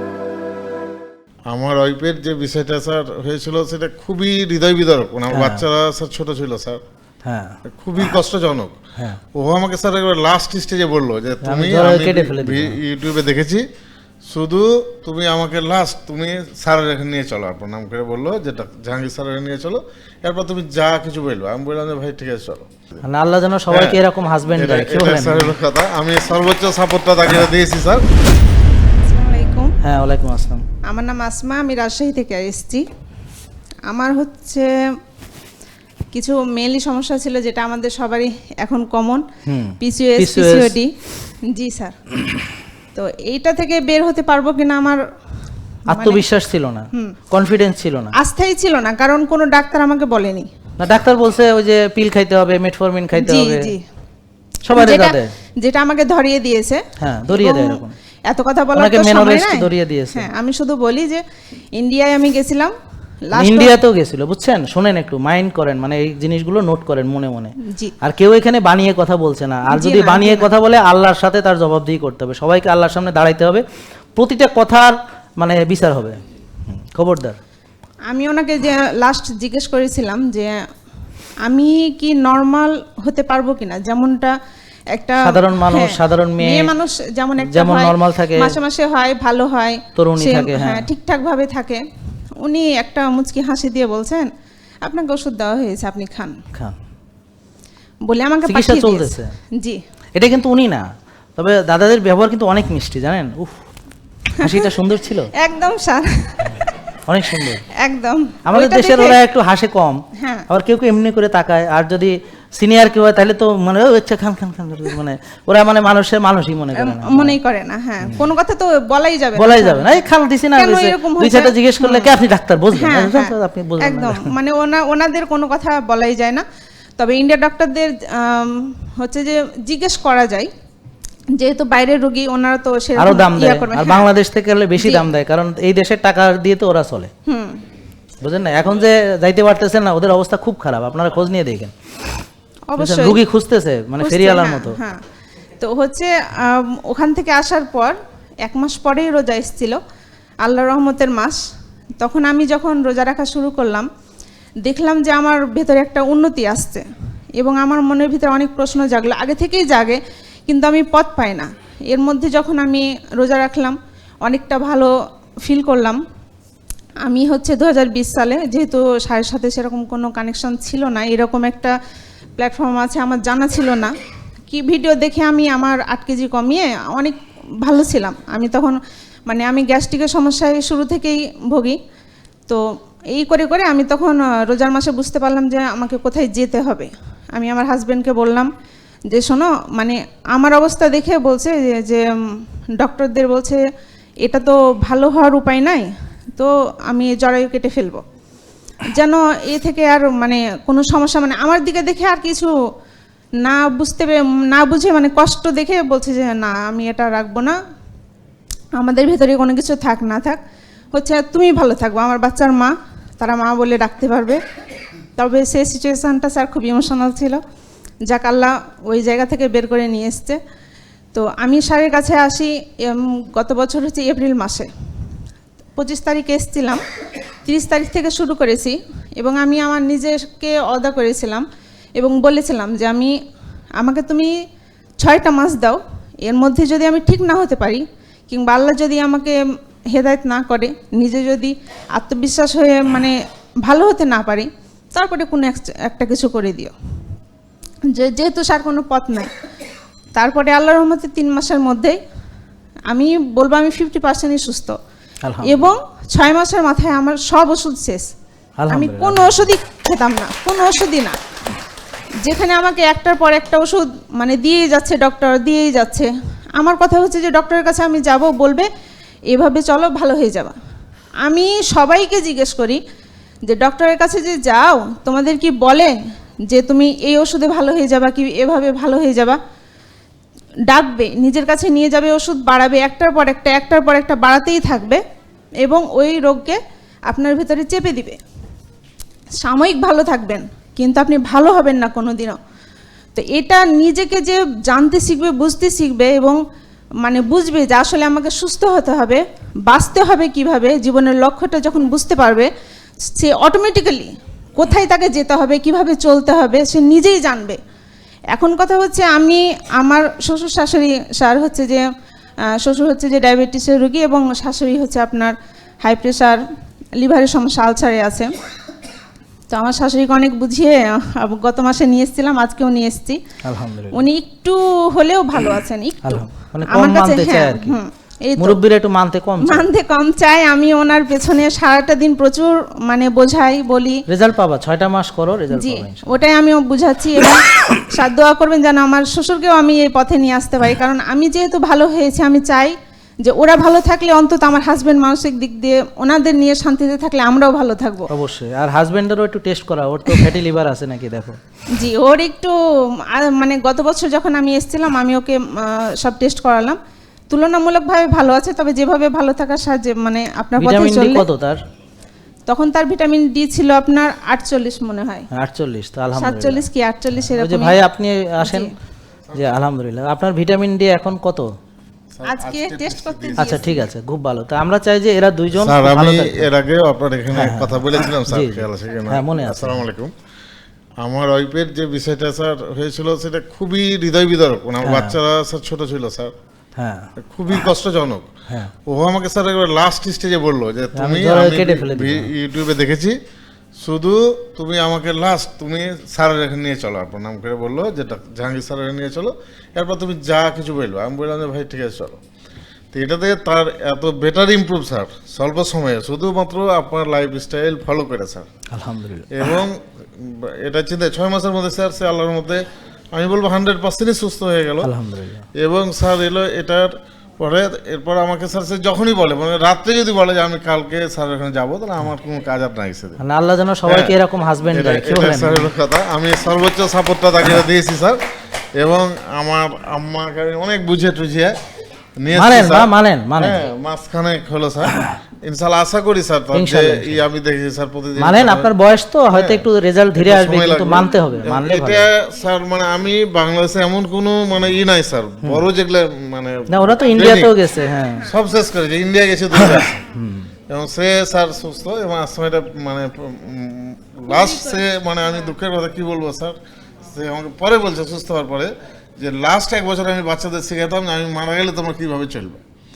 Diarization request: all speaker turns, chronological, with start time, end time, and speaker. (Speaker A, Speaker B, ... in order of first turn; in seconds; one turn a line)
Speaker A: 1.5-6.8
Speaker B: 5.3-5.6
Speaker B: 7.2-7.5
Speaker A: 7.7-8.8
Speaker A: 9.3-13.6
Speaker B: 11.4-12.8
Speaker A: 14.3-23.0
Speaker B: 23.0-25.5
Speaker A: 23.7-24.0
Speaker A: 24.5-28.0
Speaker C: 29.0-29.7
Speaker B: 29.8-30.6
Speaker C: 30.8-32.8
Speaker C: 33.9-34.7
Speaker C: 36.1-39.2
Speaker B: 39.5-40.7
Speaker C: 39.8-40.9
Speaker C: 41.5-42.0
Speaker C: 42.9-45.0
Speaker C: 45.9-46.2
Speaker B: 45.9-48.1
Speaker C: 48.1-50.5
Speaker B: 50.8-53.7
Speaker C: 53.1-53.8
Speaker B: 54.6-55.3
Speaker C: 54.7-61.2
Speaker B: 57.0-57.9
Speaker B: 58.7-60.3
Speaker C: 61.8-62.7
Speaker C: 63.3-63.7
Speaker B: 63.3-73.6
Speaker C: 67.6-67.9
Speaker C: 69.7-70.5
Speaker B: 74.2-76.2
Speaker B: 76.7-77.4
Speaker C: 78.1-80.5
Speaker C: 81.4-84.3
Speaker C: 84.9-91.8
Speaker B: 85.2-86.7
Speaker B: 87.4-88.6
Speaker B: 90.0-90.9
Speaker C: 92.4-94.3
Speaker C: 94.8-96.3
Speaker C: 98.1-99.8
Speaker B: 98.5-99.3
Speaker B: 100.2-100.8
Speaker B: 101.4-103.5
Speaker C: 104.3-104.7
Speaker B: 104.4-105.3
Speaker C: 105.3-106.6
Speaker B: 107.1-107.6
Speaker C: 107.7-109.2
Speaker B: 108.5-117.4
Speaker C: 110.2-110.5
Speaker C: 116.7-119.9
Speaker B: 119.3-124.3
Speaker C: 120.5-122.1
Speaker C: 122.7-126.4
Speaker C: 127.0-130.5
Speaker C: 131.3-134.1
Speaker B: 133.0-137.1
Speaker C: 134.8-135.1
Speaker C: 137.2-137.6
Speaker B: 138.2-141.7
Speaker C: 142.7-143.2
Speaker B: 142.8-144.8
Speaker C: 144.0-145.0
Speaker C: 145.6-149.8
Speaker C: 150.4-151.4
Speaker C: 152.0-153.9
Speaker C: 154.6-156.8
Speaker C: 157.4-164.9
Speaker C: 165.4-166.0
Speaker C: 167.0-171.7
Speaker C: 172.4-173.9
Speaker C: 174.5-181.8
Speaker C: 182.5-188.5
Speaker C: 189.1-193.6
Speaker C: 194.2-198.0
Speaker C: 199.0-202.5
Speaker C: 203.4-207.6
Speaker C: 208.8-210.4
Speaker C: 210.9-214.4
Speaker C: 215.2-217.4
Speaker C: 218.1-220.4
Speaker C: 221.1-224.7
Speaker C: 225.8-226.8
Speaker C: 227.4-231.4
Speaker C: 232.0-233.2
Speaker C: 233.8-234.3
Speaker C: 235.0-239.4
Speaker C: 239.9-246.7
Speaker C: 247.9-249.3
Speaker C: 250.2-252.0
Speaker C: 252.9-254.8
Speaker B: 255.2-255.7
Speaker C: 255.4-258.1
Speaker B: 258.6-259.4
Speaker C: 258.7-261.2
Speaker C: 262.2-268.7
Speaker C: 269.3-270.5
Speaker C: 271.2-272.8
Speaker C: 273.5-275.9
Speaker C: 276.5-279.4
Speaker C: 280.7-285.0
Speaker C: 285.6-288.2
Speaker C: 289.4-292.4
Speaker C: 293.1-296.4
Speaker C: 297.0-302.5
Speaker C: 303.1-307.6
Speaker C: 308.3-311.8
Speaker C: 312.6-316.4
Speaker C: 317.0-318.3
Speaker C: 319.5-323.2
Speaker B: 323.4-324.0
Speaker C: 323.9-328.6
Speaker B: 326.0-327.8
Speaker B: 328.4-329.7
Speaker C: 329.4-334.0
Speaker B: 334.1-336.1
Speaker C: 335.5-348.1
Speaker B: 348.1-351.4
Speaker C: 351.7-356.8
Speaker C: 357.3-361.3
Speaker B: 360.6-361.6
Speaker C: 362.5-365.3
Speaker B: 365.3-366.6
Speaker C: 366.1-367.8
Speaker B: 367.2-368.7
Speaker C: 368.4-368.7
Speaker A: 369.3-369.6
Speaker B: 369.3-371.5
Speaker A: 372.1-373.8
Speaker C: 372.2-373.7
Speaker B: 373.4-376.5
Speaker A: 375.5-380.1
Speaker B: 377.3-379.8
Speaker A: 381.0-386.3
Speaker B: 384.8-385.1
Speaker B: 386.8-387.1
Speaker A: 387.3-388.3
Speaker A: 388.9-393.2
Speaker B: 390.9-392.3
Speaker A: 393.8-402.2
Speaker A: 402.9-408.5
Speaker B: 408.7-409.4
Speaker A: 409.3-414.9
Speaker B: 414.8-415.4
Speaker A: 415.6-423.2
Speaker B: 423.2-425.7
Speaker A: 423.9-424.1
Speaker A: 424.7-428.2
Speaker A: 428.8-431.5
Speaker A: 432.2-438.7
Speaker B: 432.3-433.6
Speaker B: 436.5-437.2
Speaker B: 438.2-442.1
Speaker A: 439.3-447.5
Speaker B: 446.7-448.3
Speaker A: 448.3-449.9
Speaker B: 449.6-450.5
Speaker A: 450.7-456.6
Speaker A: 457.1-462.6